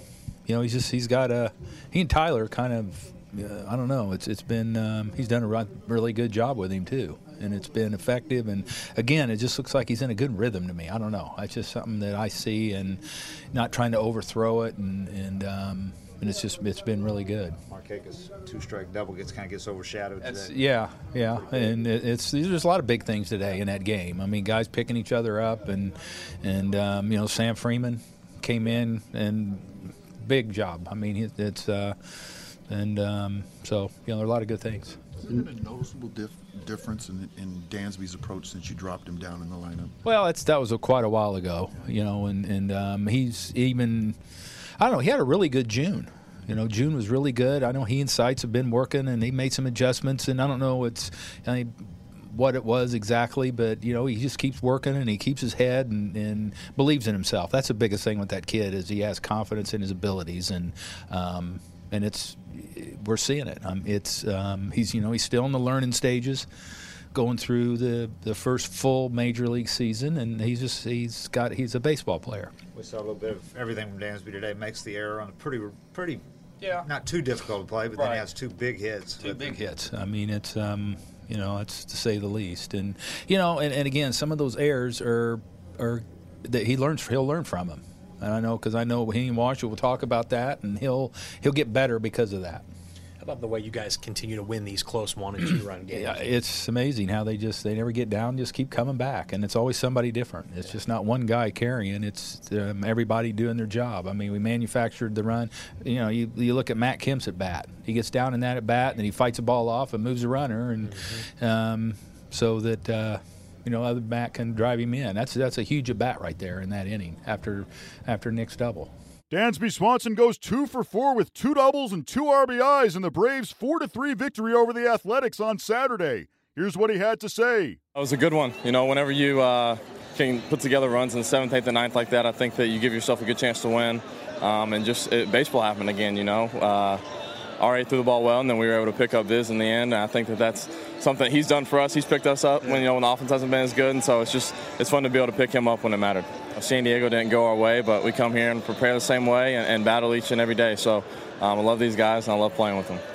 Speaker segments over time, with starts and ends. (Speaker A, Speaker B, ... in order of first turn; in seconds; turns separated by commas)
Speaker A: 0.5-17.6, Speaker B: 17.7-20.5, Speaker A: 20.2-35.0, Speaker C: 35.2-39.9, Speaker A: 40.0-44.2, Speaker A: 44.8-66.5, Speaker A: 67.1-72.5, Speaker B: 72.7-76.2, Speaker A: 76.6-76.9, Speaker B: 76.8-79.5, Speaker A: 77.9-78.3, Speaker A: 79.2-92.7, Speaker D: 93.2-96.3, Speaker A: 95.9-118.9, Speaker E: 119.3-127.8, Speaker F: 128.0-137.0, Speaker F: 137.6-153.0